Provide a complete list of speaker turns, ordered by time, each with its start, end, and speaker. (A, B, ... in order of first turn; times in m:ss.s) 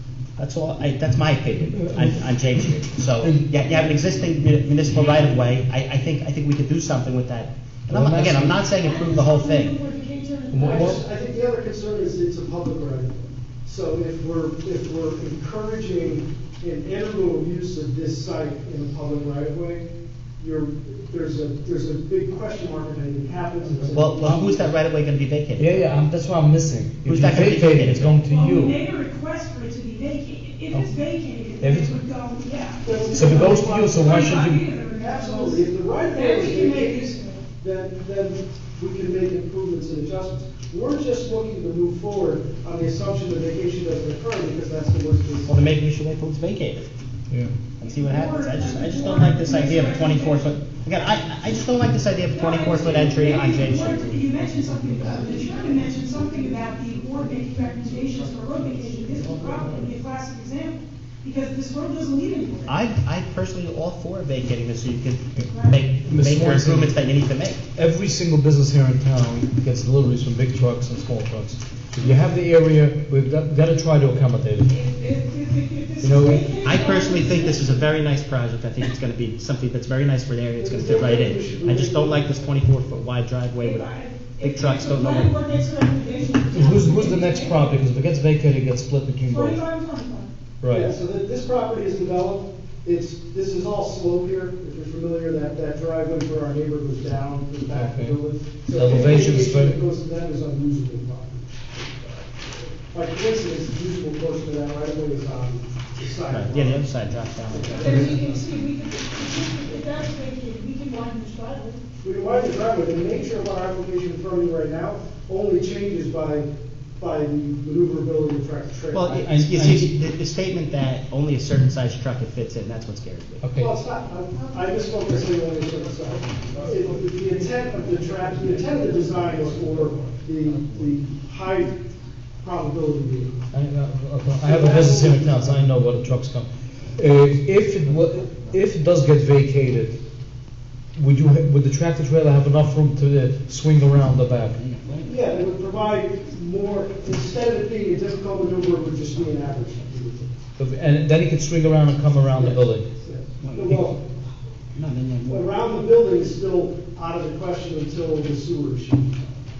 0:00.4-0:09.7 A
0:01.8-0:02.2 B
0:03.2-0:03.6 B
0:07.9-0:08.6 B
0:08.6-0:11.0 C
0:10.5-0:11.0 B
0:10.5-0:19.8 D
0:20.4-0:24.3 D
0:23.9-0:25.8 A
0:24.2-0:24.5 B
0:25.6-0:28.8 B
0:27.0-0:28.2 A
0:28.2-0:37.4 C
0:31.6-0:32.0 B
0:32.8-0:45.7 D
0:33.1-0:34.6 B
0:45.4-0:46.9 A
0:47.8-0:54.2 A
0:47.8-0:50.5 C
0:52.3-1:02.8 C
1:02.7-1:07.6 A
1:05.5-1:05.8 C
1:06.0-1:07.0 B
1:07.8-1:14.7 B
1:14.7-1:17.9 C
1:16.0-1:16.5 B
1:16.6-1:25.3 A
1:20.6-1:22.5 D
1:23.6-1:27.8 C
1:26.5-1:29.6 B
1:29.2-1:30.3 C
1:30.6-1:30.9 B
1:30.7-1:41.6 D
1:37.7-1:38.2 B
1:38.7-1:39.8 B
1:42.9-1:46.9 D
1:46.3-1:48.2 A
1:47.5-1:48.4 D
1:47.7-1:51.8 C
1:52.0-1:59.2 D
1:58.9-2:03.4 A
1:59.0-1:59.9 B
2:03.4-2:03.7 B
2:03.6-2:11.8 D
2:12.4-2:13.4 D
2:13.5-2:20.0 B
2:14.4-2:15.7 D
2:21.0-2:24.6 B
2:24.5-2:25.1 A
2:25.0-2:30.3 D
2:30.6-2:32.9 B
2:32.3-2:34.0 D
2:33.4-2:33.8 A
2:33.6-2:33.9 B
2:34.7-2:35.5 A
2:35.3-2:39.2 D